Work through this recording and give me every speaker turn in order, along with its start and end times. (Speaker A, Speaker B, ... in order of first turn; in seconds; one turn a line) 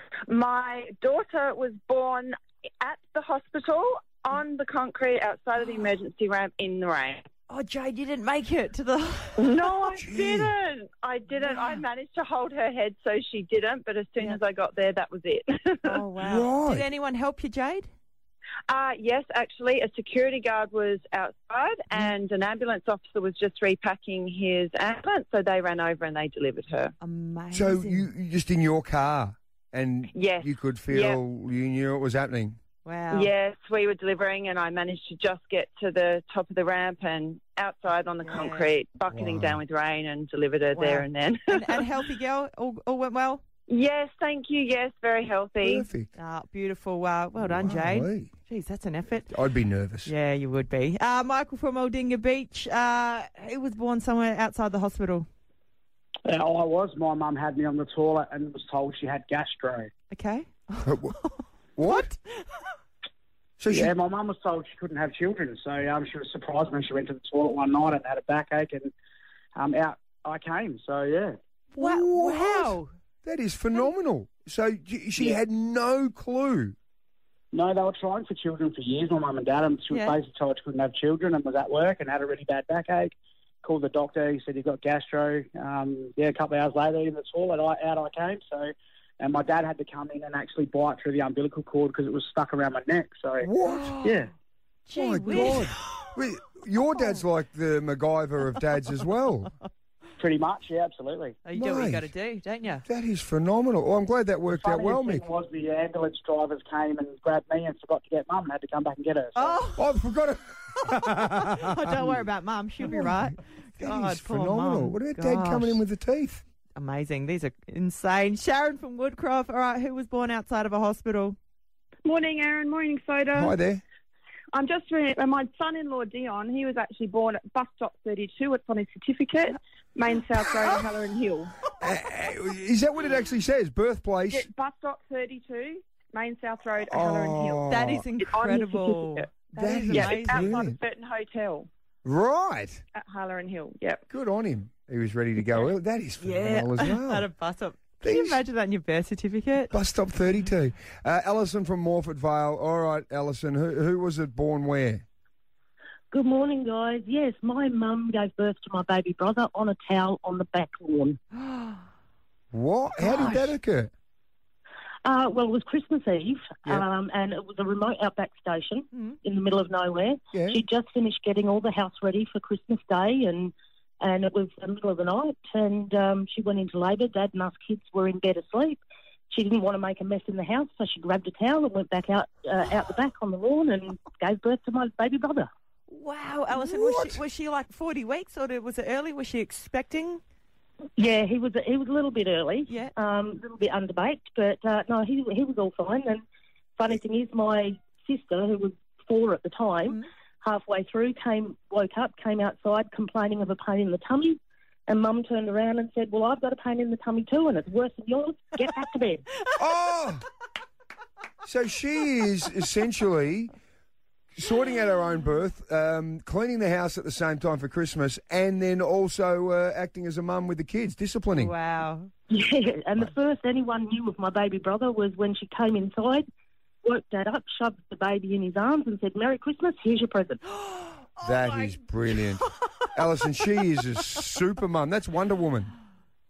Speaker A: 0.3-7.3
Speaker B: 7.5-9.6
Speaker A: 9.4-16.0
Speaker C: 10.0-10.5
Speaker B: 15.9-17.9
Speaker C: 16.2-16.9
Speaker A: 18.7-26.9
Speaker B: 27.0-28.1
Speaker C: 27.5-32.6
Speaker A: 30.1-31.2
Speaker B: 32.9-33.3
Speaker A: 33.1-41.8
Speaker B: 38.2-38.7
Speaker C: 39.1-39.6
Speaker B: 40.7-43.4
Speaker A: 43.7-45.9
Speaker C: 45.6-46.1
Speaker B: 46.1-49.3
Speaker C: 47.4-48.3
Speaker C: 49.3-50.1
Speaker B: 50.0-55.3
Speaker D: 56.3-59.9
Speaker B: 60.1-62.7
Speaker C: 60.9-61.1
Speaker C: 61.8-62.1
Speaker C: 63.6-63.9
Speaker D: 63.7-68.9
Speaker D: 69.6-71.4
Speaker C: 71.8-76.8
Speaker B: 71.8-72.9
Speaker D: 77.5-83.1
Speaker B: 79.9-80.2
Speaker D: 83.6-93.5
Speaker C: 93.4-94.0
Speaker B: 93.6-94.2
Speaker B: 94.9-96.1
Speaker C: 94.9-99.5
Speaker D: 100.2-101.4
Speaker B: 101.4-102.8
Speaker C: 101.5-102.1
Speaker C: 102.8-105.3
Speaker D: 104.5-109.6
Speaker B: 109.3-109.9
Speaker C: 109.8-112.2
Speaker B: 110.8-115.8
Speaker C: 112.8-116.4
Speaker B: 116.8-121.4
Speaker E: 122.0-123.5
Speaker C: 123.3-123.8
Speaker E: 124.5-131.6
Speaker C: 131.8-134.5
Speaker E: 134.3-141.7
Speaker C: 136.9-138.1
Speaker B: 137.7-140.6
Speaker C: 139.6-140.8
Speaker C: 142.0-142.8
Speaker E: 142.9-144.0
Speaker C: 144.1-147.3
Speaker B: 146.2-149.7
Speaker C: 148.0-148.4
Speaker C: 149.7-155.1
Speaker F: 156.1-161.2
Speaker B: 161.4-161.8
Speaker C: 162.5-163.9
Speaker B: 163.0-163.5
Speaker F: 165.1-185.5
Speaker C: 170.3-170.6
Speaker B: 185.9-190.2
Speaker C: 186.6-187.2
Speaker F: 191.0-196.2
Speaker F: 196.8-209.2
Speaker C: 209.6-210.3
Speaker C: 211.4-213.5
Speaker C: 214.3-221.5
Speaker B: 221.3-222.1
Speaker F: 222.3-226.2
Speaker F: 226.8-230.4
Speaker B: 230.7-231.8
Speaker C: 231.2-235.7
Speaker B: 232.4-232.9